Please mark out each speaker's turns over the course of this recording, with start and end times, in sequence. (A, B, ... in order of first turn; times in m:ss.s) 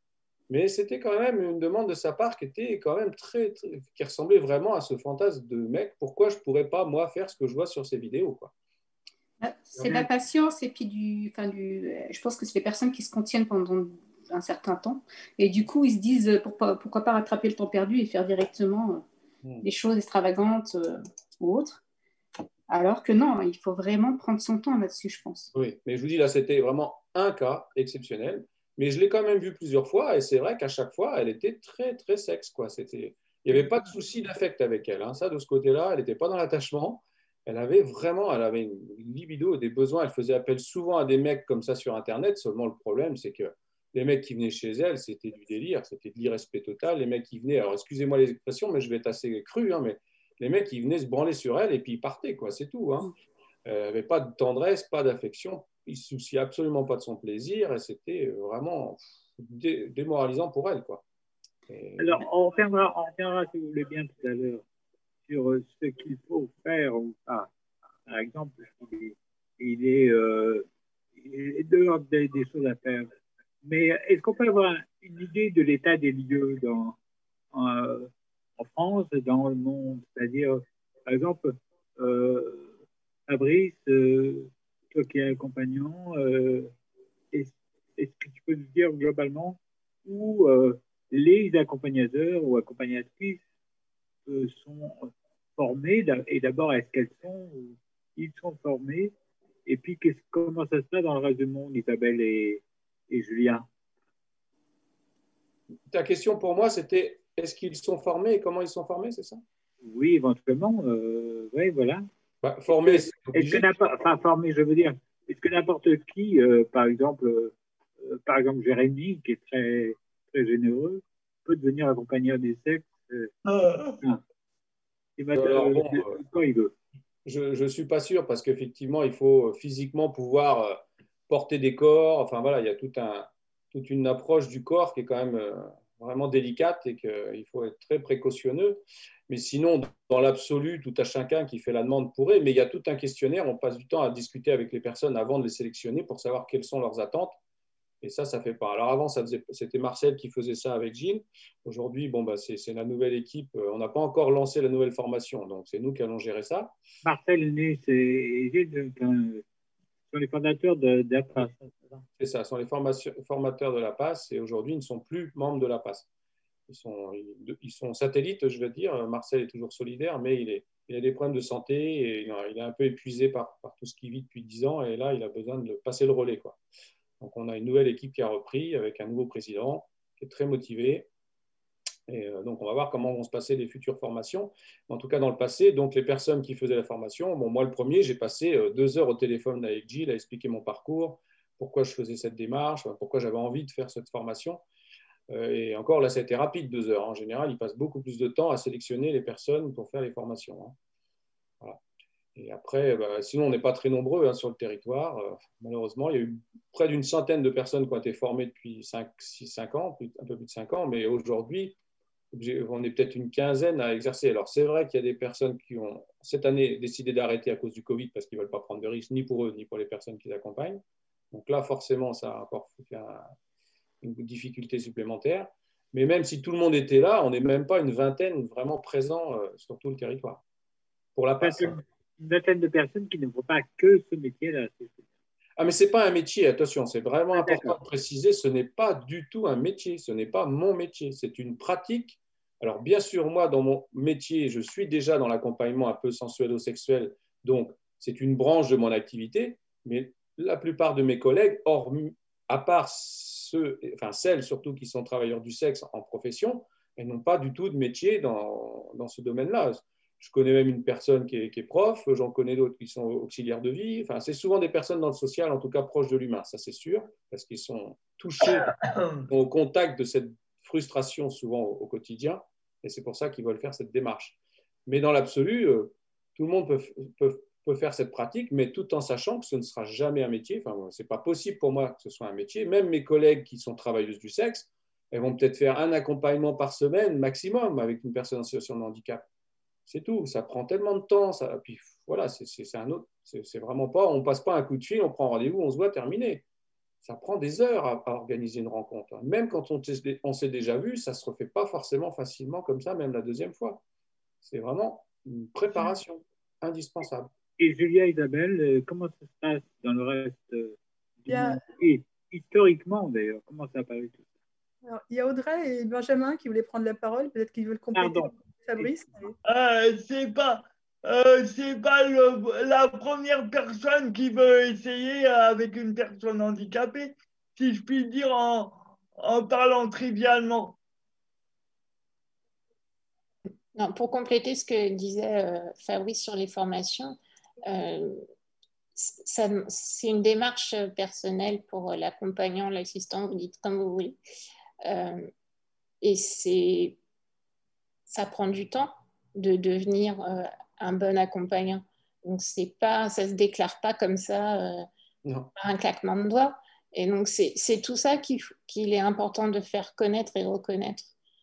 0:00.5-0:08.5 A
0:09.4-0:19.0 B
0:09.7-0:10.1 A
0:19.6-0:21.8 B
0:22.7-0:25.5 B
0:25.5-0:53.1 A
0:53.6-1:01.0 A
1:01.7-1:02.2 A
1:02.0-1:04.6 C
1:05.3-1:07.5 C
1:08.1-1:13.1 C
1:13.6-1:17.0 C
1:17.5-1:22.7 C
1:23.3-1:26.7 C
1:27.3-1:33.4 C
1:34.2-1:39.1 C
1:39.6-1:43.7 C
1:45.9-1:49.4 A
1:49.8-1:52.0 C
1:52.4-1:53.7 A
1:52.7-2:03.3 C
2:03.4-2:04.0 D
2:05.2-2:06.7 C
2:05.3-2:06.2 A
2:07.2-2:27.4 A
2:28.0-2:36.7 A
2:37.0-2:39.4 C
2:40.1-2:42.0 C
2:42.2-2:46.1 A
2:46.7-2:56.6 A
2:57.2-3:01.1 A
3:02.1-3:14.6 A
3:15.3-3:20.8 A
3:22.4-3:31.8 A
3:32.3-3:43.3 A
3:44.0-3:50.4 A
3:51.1-3:51.7 A
3:51.4-3:55.1 C
3:55.6-4:28.7 A
3:57.3-3:57.8 C
4:29.3-4:49.2 A
4:49.9-4:56.4 A
4:57.0-5:03.8 A
5:04.4-5:07.3 A
5:07.6-5:14.3 C
5:11.3-5:11.6 E
5:14.8-5:19.3 E
5:17.9-5:18.9 C
5:19.4-5:30.8 D
5:33.7-5:38.2 F
5:39.0-5:44.2 F
5:44.8-5:45.3 F
5:46.0-5:47.0 F
5:48.1-5:54.8 F
5:55.2-5:55.5 A
5:55.6-6:01.1 F